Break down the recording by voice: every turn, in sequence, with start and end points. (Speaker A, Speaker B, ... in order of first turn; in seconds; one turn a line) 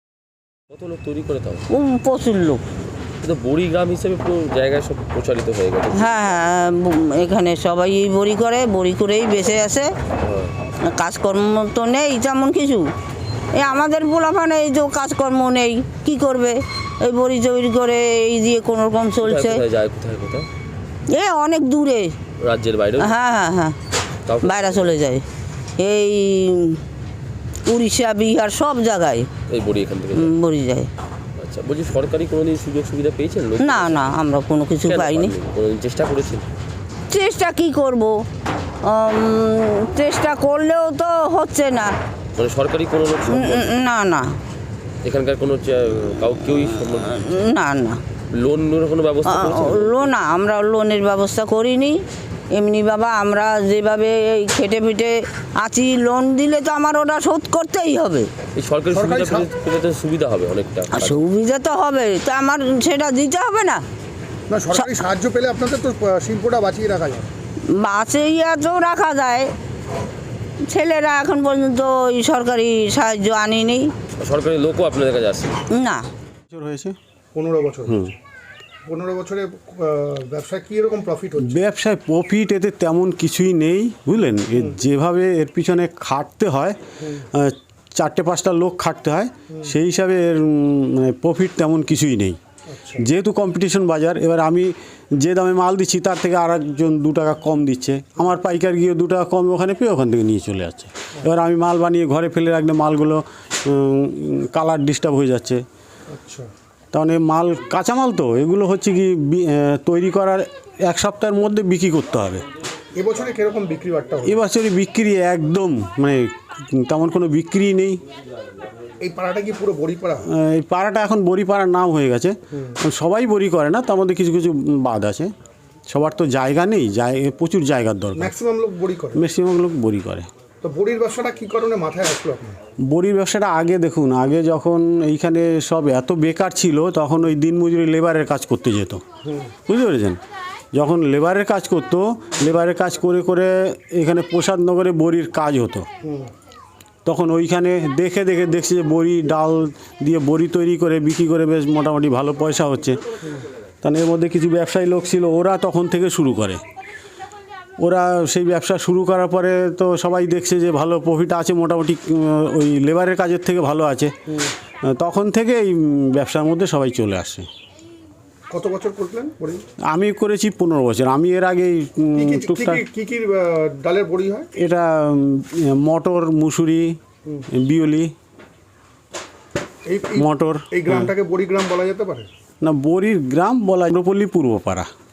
Speaker A: 0.7-1.6
Speaker B: 1.7-2.6
Speaker A: 3.2-6.2
Speaker B: 5.9-9.9
Speaker A: 10.2-10.5
Speaker B: 10.8-12.9
Speaker B: 13.5-19.6
Speaker A: 19.2-20.5
Speaker B: 21.1-22.1
Speaker A: 22.4-23.1
Speaker B: 23.0-23.7
Speaker A: 24.2-25.0
Speaker B: 24.4-25.2
Speaker B: 25.8-26.8
Speaker B: 27.7-29.3
Speaker A: 29.5-30.3
Speaker B: 30.1-30.9
Speaker A: 31.4-34.0
Speaker B: 33.6-35.3
Speaker A: 34.8-36.5
Speaker B: 37.1-38.2
Speaker B: 38.8-41.9
Speaker A: 42.4-43.8
Speaker B: 43.3-44.3
Speaker A: 45.0-47.5
Speaker B: 47.1-48.0
Speaker A: 48.3-50.1
Speaker B: 49.2-52.0
Speaker B: 52.5-58.3
Speaker A: 58.5-61.2
Speaker C: 58.9-59.5
Speaker B: 60.9-63.8
Speaker C: 64.5-67.3
Speaker B: 67.7-69.5
Speaker B: 70.7-73.9
Speaker A: 74.2-75.5
Speaker B: 75.7-76.0
Speaker D: 76.5-77.0
Speaker C: 77.3-78.0
Speaker D: 77.9-78.1
Speaker C: 78.8-81.6
Speaker D: 81.4-92.4
Speaker C: 92.7-93.0
Speaker D: 93.0-105.6
Speaker C: 106.1-106.5
Speaker D: 106.9-112.4
Speaker C: 112.9-114.4
Speaker D: 114.2-118.0
Speaker C: 119.0-120.2
Speaker D: 120.3-125.3
Speaker D: 125.9-128.3
Speaker C: 128.2-129.2
Speaker D: 129.1-130.3
Speaker C: 130.6-132.6
Speaker D: 132.9-139.0
Speaker C: 139.2-139.5
Speaker D: 139.7-140.2
Speaker D: 140.7-145.9
Speaker C: 146.0-146.3
Speaker D: 147.0-153.0
Speaker D: 153.8-156.6
Speaker D: 157.8-164.3
Speaker D: 164.8-167.5
Speaker C: 168.5-169.6
Speaker D: 169.9-172.8
Speaker C: 172.2-174.5
Speaker D: 174.6-177.0
Speaker D: 177.5-178.1
Speaker C: 179.8-182.3
Speaker D: 180.2-181.1
Speaker D: 182.6-184.9